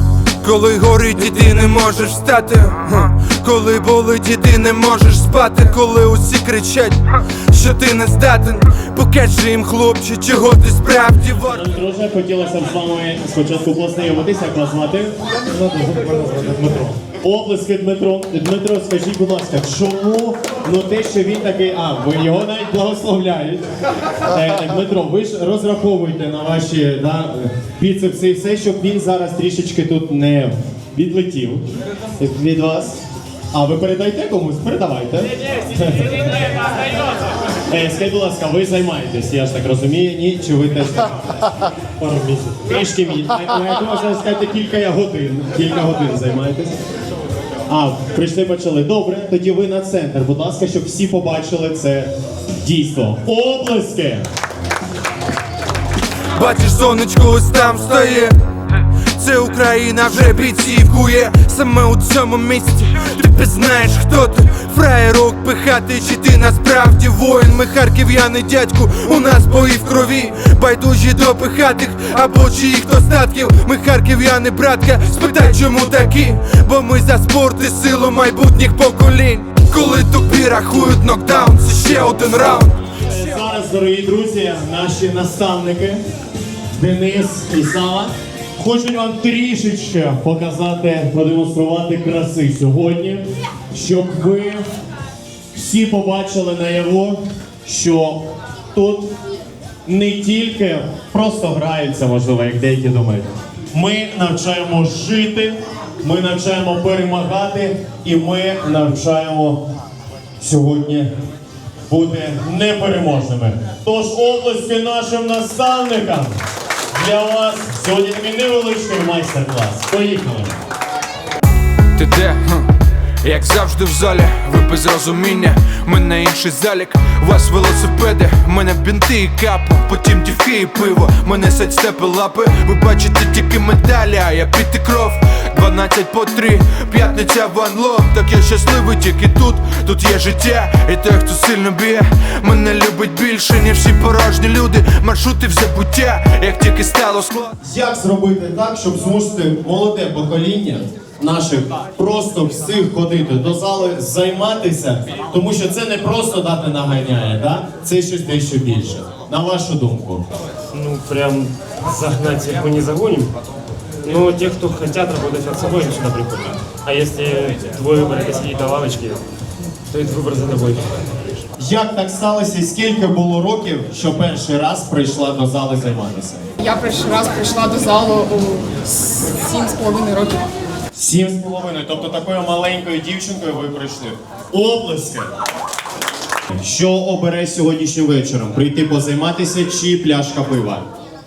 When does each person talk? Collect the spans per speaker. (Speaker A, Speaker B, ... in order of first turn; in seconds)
Speaker A: 0.4-11.6, 56.4-58.4, 59.2-82.7, 122.0-122.7, 123.2-147.5
Speaker B: 11.5-15.2, 16.8-23.7, 24.2-33.0, 33.5-36.6, 37.7-41.2, 42.0-46.8, 47.7-54.3, 83.0-86.0, 86.8-94.7, 95.5-99.1, 99.9-109.7, 110.4-111.1, 111.9-116.4, 116.9-120.6, 147.6-160.2, 171.6-176.5, 180.9-185.3, 186.5-190.9
Speaker C: 42.2-42.5, 160.7-163.3, 164.0-169.2, 169.9-170.8
Speaker D: 176.6-180.4